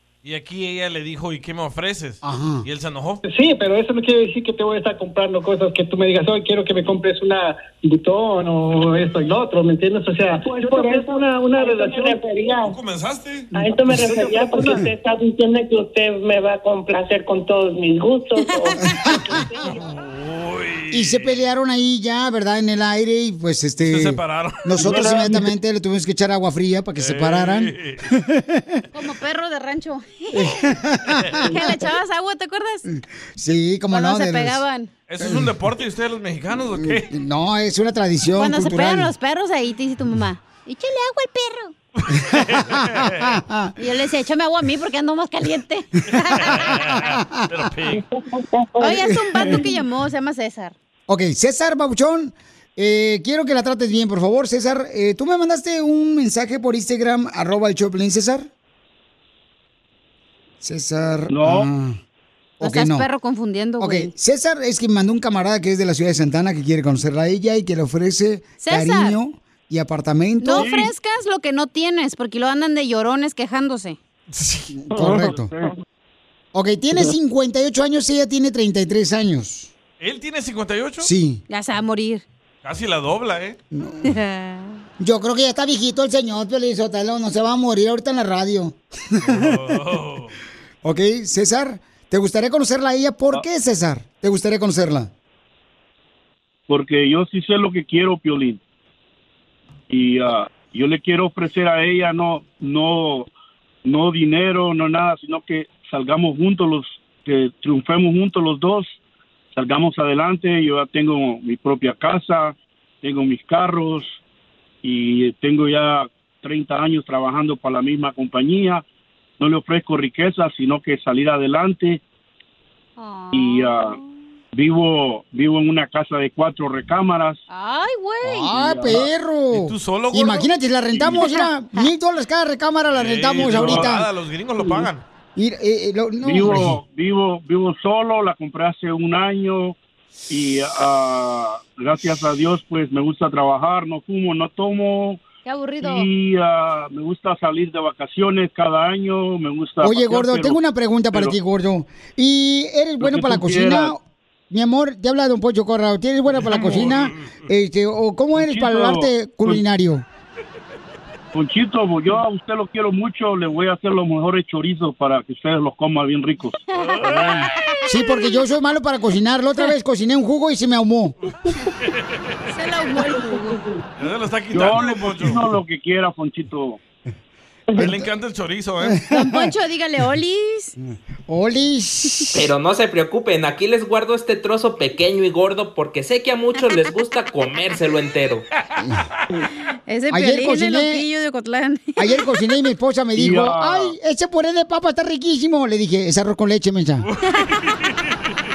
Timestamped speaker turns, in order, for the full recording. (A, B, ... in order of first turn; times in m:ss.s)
0:00.2-0:03.2 A
0:02.2-0:02.6 B
0:03.2-0:12.5 C
0:10.8-0:12.7 D
0:12.6-0:13.5 A
0:13.5-0:19.8 D
0:20.0-0:21.4 A
0:20.9-0:28.8 B
0:23.8-0:25.4 A
0:27.0-0:28.0 A
0:28.9-0:30.4 E
0:30.3-0:31.8 B
0:31.5-0:32.8 E
0:32.8-0:34.6 B
0:33.9-0:34.9 E
0:35.1-0:37.1 A
0:35.2-0:35.5 B
0:36.8-0:39.1 B
0:38.4-0:41.7 E
0:42.0-0:43.2 A
0:42.3-0:43.7 B
0:43.8-0:46.7 E
0:46.6-0:48.0 A
0:46.7-0:47.5 B
0:47.9-0:49.2 D
0:48.8-0:50.7 E
0:51.1-0:58.5 B
1:00.6-1:02.0 B
1:01.3-1:01.7 F
1:02.6-1:03.1 B
1:02.6-1:04.1 E
1:03.8-1:10.7 B
1:08.6-1:09.2 E
1:10.4-1:14.0 E
1:10.5-1:10.9 F
1:14.4-1:14.6 A
1:14.9-1:15.5 B
1:14.9-1:15.7 F
1:16.5-1:19.7 B
1:20.0-1:21.1 A
1:21.0-1:21.4 B
1:21.5-1:22.2 E
1:22.6-1:23.6 A
1:23.7-1:24.1 B
1:24.0-1:24.8 E
1:25.0-1:29.7 B
1:29.2-1:30.3 A
1:30.8-1:35.1 B
1:36.7-1:38.6 F
1:39.9-1:43.3 F
1:43.8-1:48.9 F
1:49.6-1:54.2 F
1:54.8-1:58.8 F
1:59.4-2:02.0 F
2:03.0-2:04.0 E
2:03.3-2:04.0 F
2:04.5-2:07.4 F
2:07.5-2:08.5 E
2:08.3-2:14.1 B
2:08.4-2:09.1 F
2:09.5-2:10.5 A
2:11.2-2:11.8 E
2:12.9-2:15.0 A
2:14.6-2:14.9 F
2:15.4-2:16.6 B
2:16.2-2:19.8 F
2:20.3-2:25.2 F
2:25.4-2:26.1 E
2:25.8-2:30.6 F
2:29.8-2:34.0 B
2:33.0-2:33.9 F
2:34.5-2:40.0 B
2:36.5-2:36.9 F
2:38.4-2:39.6 F
2:41.3-2:46.6 F
2:46.7-2:47.9 E
2:47.9-2:51.1 B
2:52.5-2:53.6 E
2:54.0-2:55.4 A
2:54.5-2:56.8 F
2:57.8-2:59.0 A
2:58.8-2:59.5 B
2:59.1-3:00.7 E
3:01.3-3:02.4 B
3:02.3-3:08.4 G
3:09.9-3:12.3 E
3:10.1-3:11.0 B
3:12.0-3:17.1 B
3:13.1-3:13.9 F
3:17.2-3:17.8 A